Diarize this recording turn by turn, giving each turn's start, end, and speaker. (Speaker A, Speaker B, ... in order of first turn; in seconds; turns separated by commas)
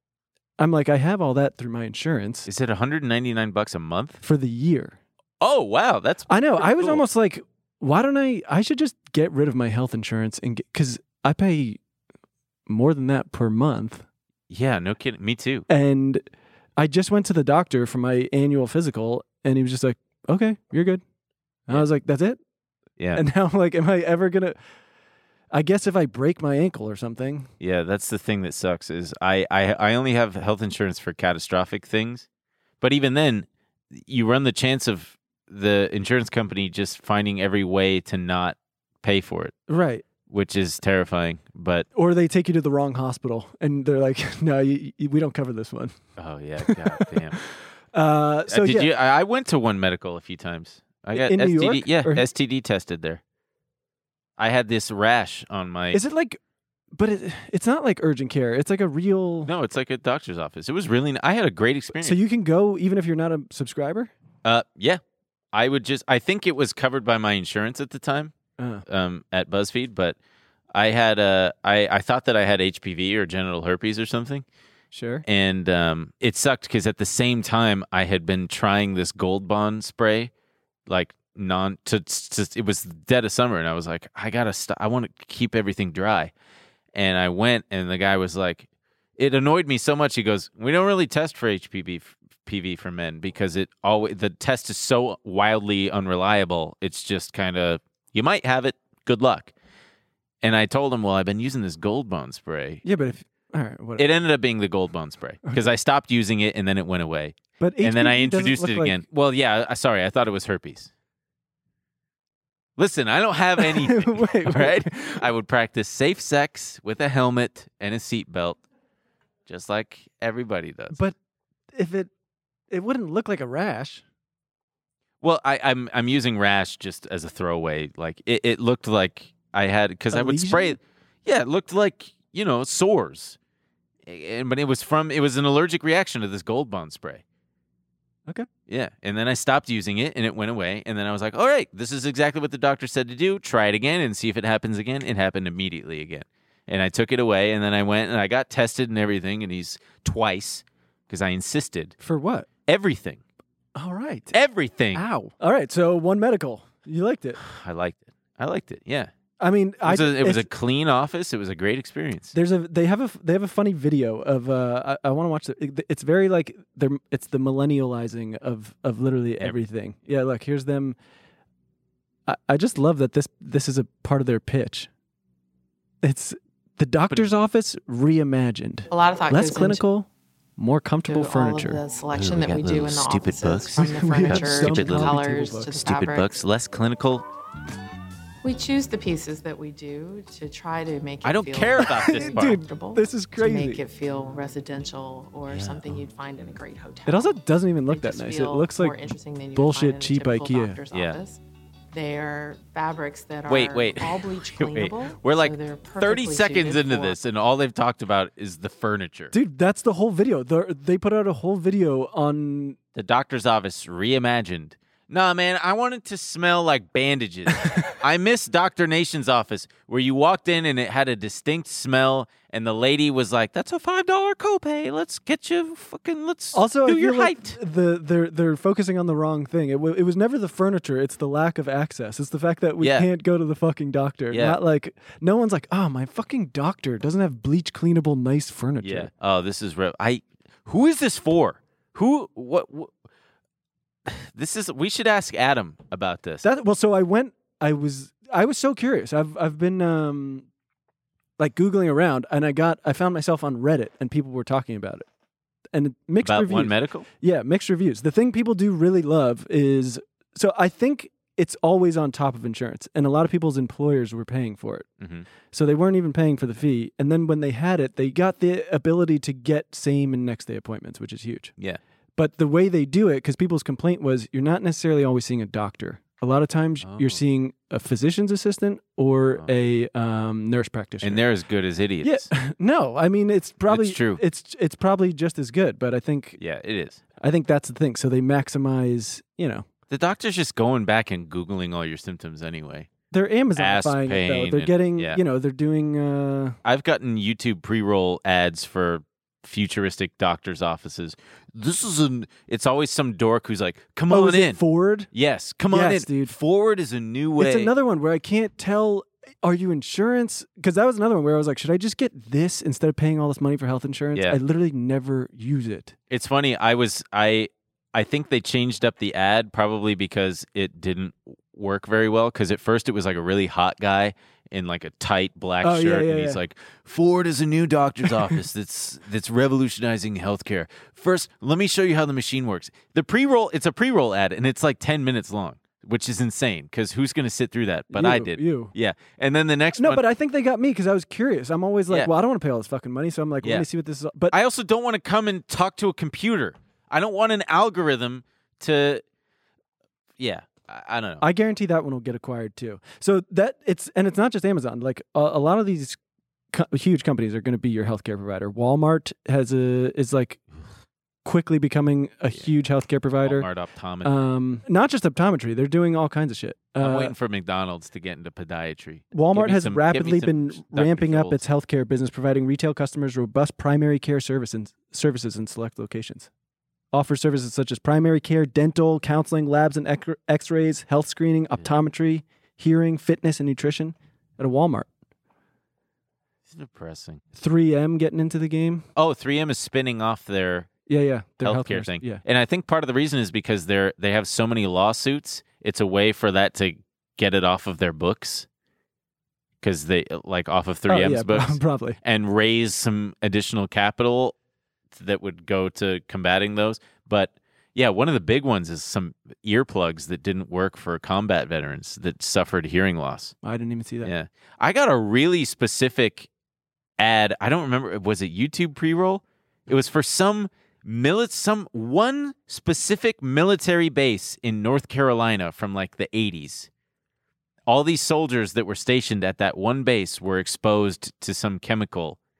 Speaker A: 0.6-2.5, Speaker B: 2.5-4.2, Speaker A: 4.2-5.0, Speaker B: 5.4-7.0, Speaker A: 6.3-11.8, Speaker A: 12.7-14.1, Speaker B: 14.5-15.7, Speaker A: 15.7-16.2, Speaker A: 16.8-21.0, Speaker A: 21.7-22.4, Speaker A: 23.1-24.6, Speaker A: 25.5-27.5, Speaker B: 27.6-32.3, Speaker B: 32.8-39.6, Speaker A: 39.7-40.0, Speaker B: 40.3-41.9, Speaker A: 42.0-46.0, Speaker B: 46.2-47.4, Speaker A: 46.7-47.1, Speaker A: 47.9-48.9, Speaker B: 48.5-53.2, Speaker A: 51.1-52.2, Speaker B: 54.4-56.0, Speaker A: 55.9-56.4, Speaker A: 57.0-59.5, Speaker B: 59.5-62.2, Speaker A: 62.0-64.1, Speaker B: 64.4-65.0, Speaker B: 65.5-68.3, Speaker A: 68.6-68.8, Speaker B: 68.9-70.2, Speaker B: 70.7-74.5, Speaker A: 74.9-75.2, Speaker B: 75.3-80.3, Speaker B: 80.9-86.3, Speaker B: 86.9-88.7, Speaker B: 89.2-99.5, Speaker B: 100.4-102.8, Speaker A: 102.8-104.1, Speaker B: 104.0-110.9, Speaker A: 107.6-109.0, Speaker B: 112.8-118.6, Speaker A: 113.6-115.2, Speaker B: 119.5-121.0, Speaker A: 121.7-122.1, Speaker A: 122.7-124.0, Speaker B: 125.2-133.4, Speaker A: 130.1-130.8, Speaker B: 134.1-137.2, Speaker B: 138.7-152.0, Speaker A: 152.0-152.5, Speaker B: 152.7-153.2, Speaker A: 153.8-154.4, Speaker B: 154.3-155.1, Speaker A: 154.9-157.4, Speaker B: 157.4-159.1, Speaker A: 159.4-160.5, Speaker B: 159.8-162.3, Speaker A: 162.3-171.0, Speaker A: 172.3-174.9, Speaker A: 176.0-181.8, Speaker C: 178.9-179.8, Speaker C: 181.1-186.4, Speaker B: 182.1-187.3, Speaker A: 183.8-185.8, Speaker C: 188.4-201.4, Speaker B: 191.2-192.6, Speaker A: 191.8-193.8, Speaker B: 195.5-196.1, Speaker A: 197.1-199.0, Speaker A: 199.5-200.8, Speaker B: 200.9-201.2, Speaker C: 201.9-207.2, Speaker B: 203.5-209.3, Speaker A: 209.3-212.8, Speaker B: 212.9-227.6, Speaker A: 226.5-239.1, Speaker B: 232.8-233.1, Speaker B: 234.3-234.6, Speaker B: 238.8-242.9, Speaker B: 244.1-246.4, Speaker A: 246.4-250.5, Speaker A: 251.4-255.1, Speaker A: 255.7-264.9, Speaker B: 256.2-257.1, Speaker B: 265.0-265.3, Speaker A: 265.5-271.5, Speaker A: 272.2-281.2, Speaker B: 276.8-277.2, Speaker B: 281.0-282.3, Speaker A: 282.0-286.4, Speaker B: 283.7-284.2, Speaker B: 286.4-287.0, Speaker A: 287.2-289.7, Speaker B: 289.9-292.9, Speaker A: 293.1-296.6, Speaker B: 293.6-295.2, Speaker B: 296.6-304.6, Speaker A: 304.1-305.1, Speaker B: 305.1-307.7, Speaker A: 305.7-306.4, Speaker A: 307.4-315.9, Speaker B: 316.1-340.0, Speaker A: 325.6-326.4, Speaker A: 337.9-338.7, Speaker A: 339.8-344.4, Speaker B: 344.3-349.0, Speaker B: 350.2-351.3, Speaker A: 351.2-356.0, Speaker A: 356.5-360.4, Speaker A: 361.2-363.5, Speaker B: 363.2-364.2, Speaker A: 364.0-367.1, Speaker B: 366.8-371.4, Speaker A: 369.1-376.3, Speaker A: 376.9-384.9, Speaker B: 386.5-387.2, Speaker A: 387.4-388.9, Speaker B: 389.0-390.7, Speaker A: 390.9-392.2, Speaker B: 391.4-398.5, Speaker B: 399.6-404.4, Speaker A: 400.9-402.0, Speaker B: 404.9-413.4, Speaker A: 413.4-414.1, Speaker B: 414.0-416.3, Speaker B: 417.0-426.7, Speaker B: 427.7-432.2